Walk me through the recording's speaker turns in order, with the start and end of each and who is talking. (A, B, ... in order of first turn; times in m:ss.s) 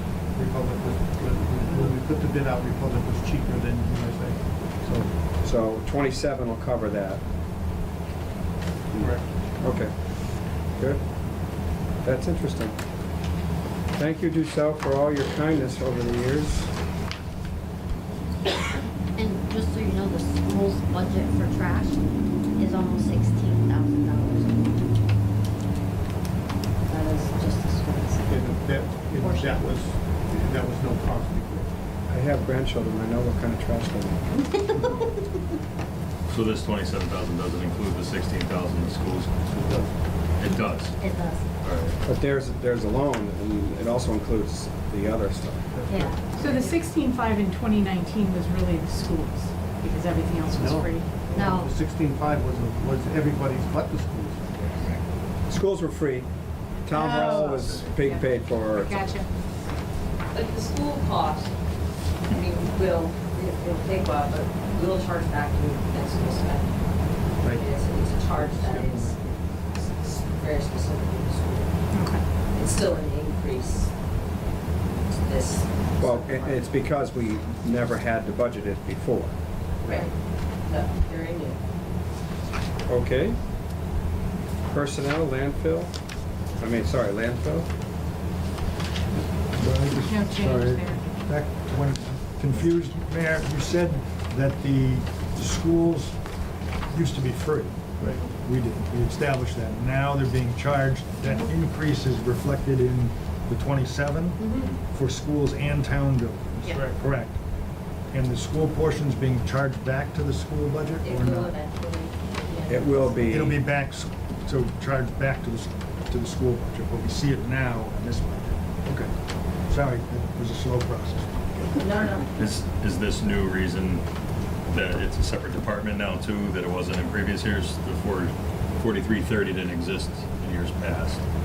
0:00.3-0:05.1 A
0:05.4-0:07.2 B
0:08.9-0:09.3 A
0:09.6-0:09.9 B
0:12.0-0:12.7 B
0:14.0-0:16.7 B
0:19.2-0:22.0 C
0:22.6-0:24.9 C
0:26.9-0:29.8 C
0:28.3-0:31.7 A
0:32.1-0:34.6 B
0:34.6-0:35.2 C
0:36.3-0:39.3 D
0:39.4-0:40.0 A
0:40.4-0:40.9 D
0:40.5-0:41.5 C
0:41.6-0:42.0 D
0:42.0-0:45.7 B
0:45.8-0:46.2 A
0:45.9-0:46.8 C
0:46.4-0:51.2 E
0:50.5-0:54.9 A
0:51.3-0:51.7 C
0:55.5-0:56.3 B
0:56.8-0:59.1 B
0:56.9-0:59.3 E
0:57.3-0:57.6 A
0:57.5-0:57.9 D
1:00.3-1:01.5 F
1:02.3-1:06.8 F
1:07.4-1:07.7 A
1:07.5-1:09.2 F
1:08.3-1:09.3 A
1:09.8-1:11.7 F
1:11.9-1:12.2 E
1:12.5-1:13.9 F
1:15.2-1:16.6 F
1:16.0-1:19.3 B
1:19.8-1:20.1 F
1:20.7-1:21.6 F
1:22.9-1:23.4 B
1:24.7-1:25.9 B
1:26.6-1:27.7 B
1:29.5-1:36.2 G
1:29.9-1:31.0 E
1:36.9-1:47.4 G
1:44.4-1:44.7 C
1:46.6-1:46.9 C
1:48.1-1:51.6 G
1:51.0-1:53.1 F
1:52.7-1:53.6 B
1:53.2-1:59.1 G
1:59.7-2:02.2 G
2:01.8-2:02.6 F
2:02.4-2:04.0 D
2:04.7-2:11.2 D